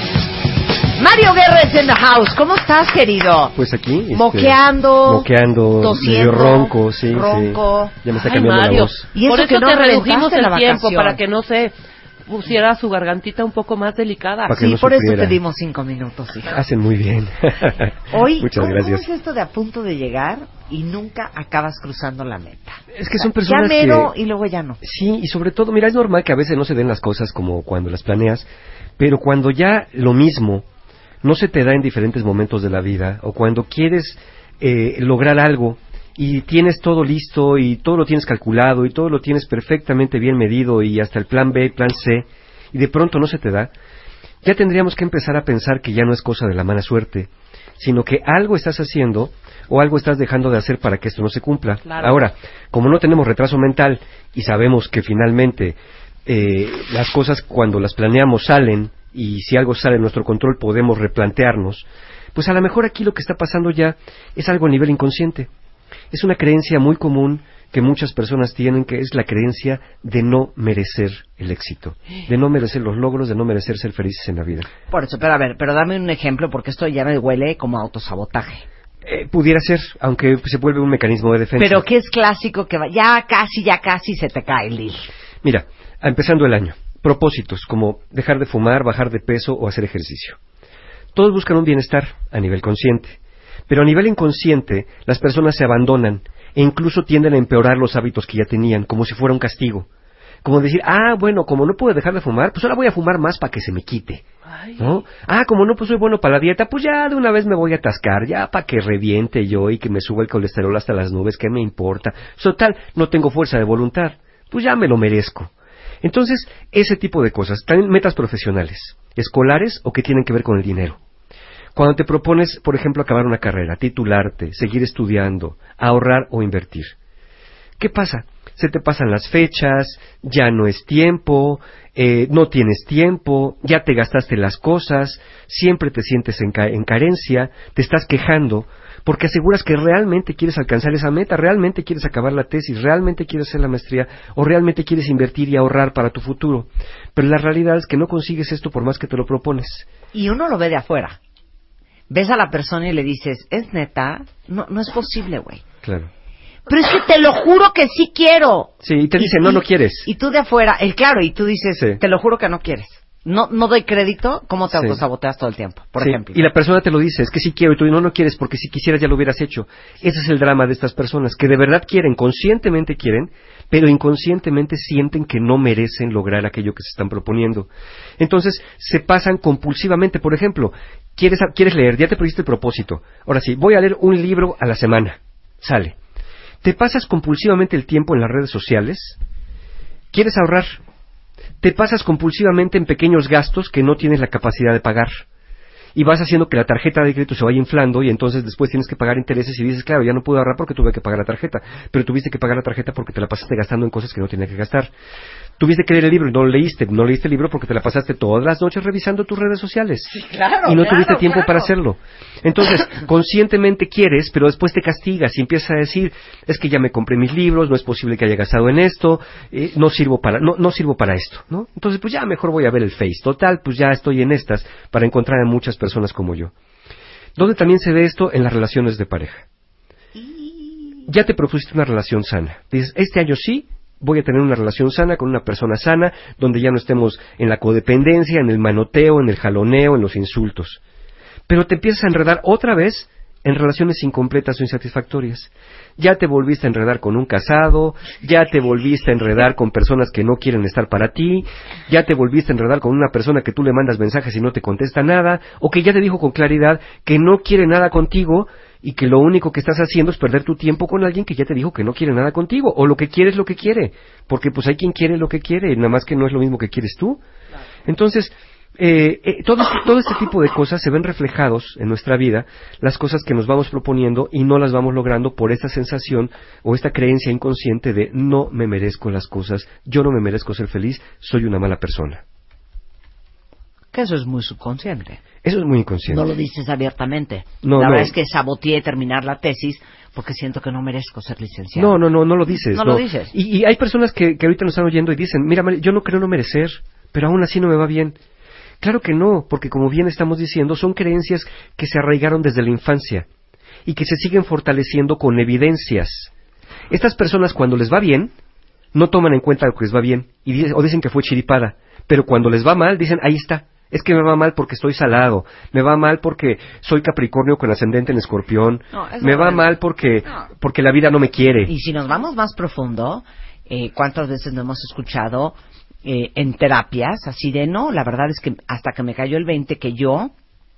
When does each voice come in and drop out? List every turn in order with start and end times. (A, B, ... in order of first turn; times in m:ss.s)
0:01.0-0:03.6 A
0:03.5-0:09.0 B
0:04.1-0:08.0 A
0:08.1-0:11.7 C
0:09.1-0:11.2 A
0:12.3-0:14.6 C
0:14.5-0:15.4 B
0:14.5-0:16.6 A
0:16.5-0:19.0 B
0:18.1-0:24.8 A
0:23.0-0:24.1 B
0:24.8-0:30.6 B
0:31.2-0:43.7 B
0:44.4-1:05.5 B
1:06.1-1:14.7 B
1:14.9-1:18.6 A
1:19.0-1:21.8 B
1:21.6-1:25.0 A
1:25.4-1:30.4 B
1:31.1-1:33.2 B
1:33.7-1:39.9 B
1:40.4-1:44.2 B
1:44.8-1:55.5 B
1:56.0-2:01.0 B
2:01.7-2:06.9 B
2:07.8-2:29.9 B
2:30.1-2:31.2 A
2:32.1-2:35.6 A
2:35.8-2:36.1 B
2:36.7-2:46.4 A
2:38.8-2:40.1 B
2:44.7-2:45.0 B
2:46.0-3:06.0 B
3:06.6-3:09.2 B
3:10.1-3:10.8 B
3:11.6-3:15.2 B
3:15.9-3:24.9 B
3:25.6-3:30.1 B
3:30.1-3:31.7 A
3:30.6-3:46.5 B
3:47.4-3:49.4 B
3:50.2-3:51.0 A
3:51.1-4:00.8 B
4:01.5-4:27.2 B
4:27.8-4:42.2 B
4:43.9-4:45.2 A
4:45.4-4:46.2 B
4:46.1-4:52.0 A
4:47.6-4:48.1 B
4:51.8-4:58.2 B
4:52.7-4:53.3 A
4:58.8-5:03.2 B
5:03.8-5:06.3 B
5:06.9-5:08.3 B
5:08.9-5:21.7 B
5:18.9-5:19.7 A
5:21.6-5:30.3 A